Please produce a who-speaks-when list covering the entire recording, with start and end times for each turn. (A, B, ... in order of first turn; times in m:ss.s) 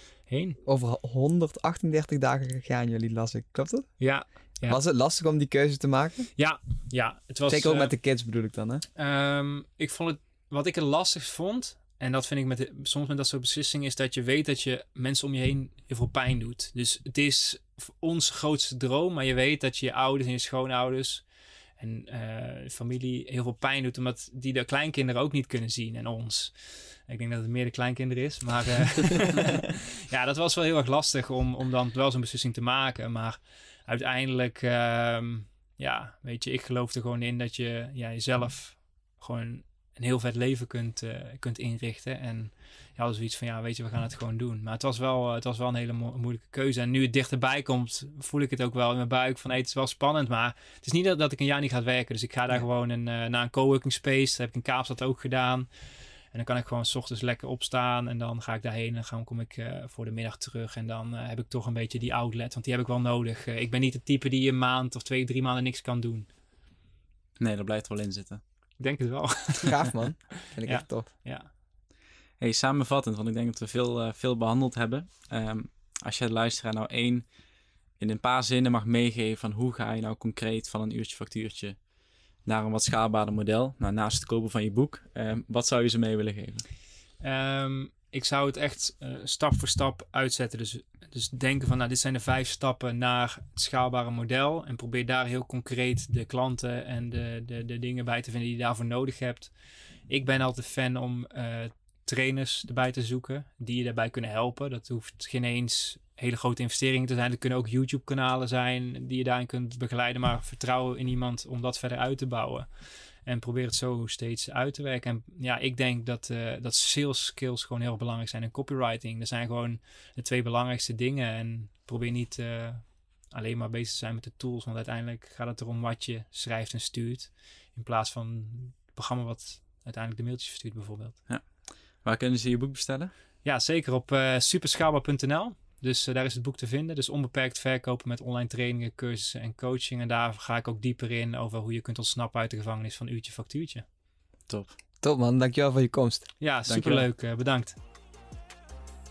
0:00.3-0:00.6 A
0:00.7-0:03.9 B
0:04.0-0:04.8 A
0:04.6-0:06.3 B
0:06.4-0:07.9 A
0:07.5-0:08.8 B
0:09.0-0:21.2 A
0:21.8-0:55.7 A
0:56.3-1:06.3 A
1:07.4-1:08.4 C
1:08.8-1:09.9 A
1:09.6-1:11.1 B
1:10.6-1:11.5 A
1:12.4-1:17.2 C
1:18.0-1:21.8 C
1:22.4-1:26.6 C
1:27.2-1:39.5 A
1:40.1-1:52.7 A
1:53.2-2:11.2 A
2:12.0-2:13.1 C
2:13.4-2:23.9 A
2:24.5-2:24.8 C
2:25.0-2:26.3 B
2:26.4-2:27.8 A
2:26.7-2:27.1 C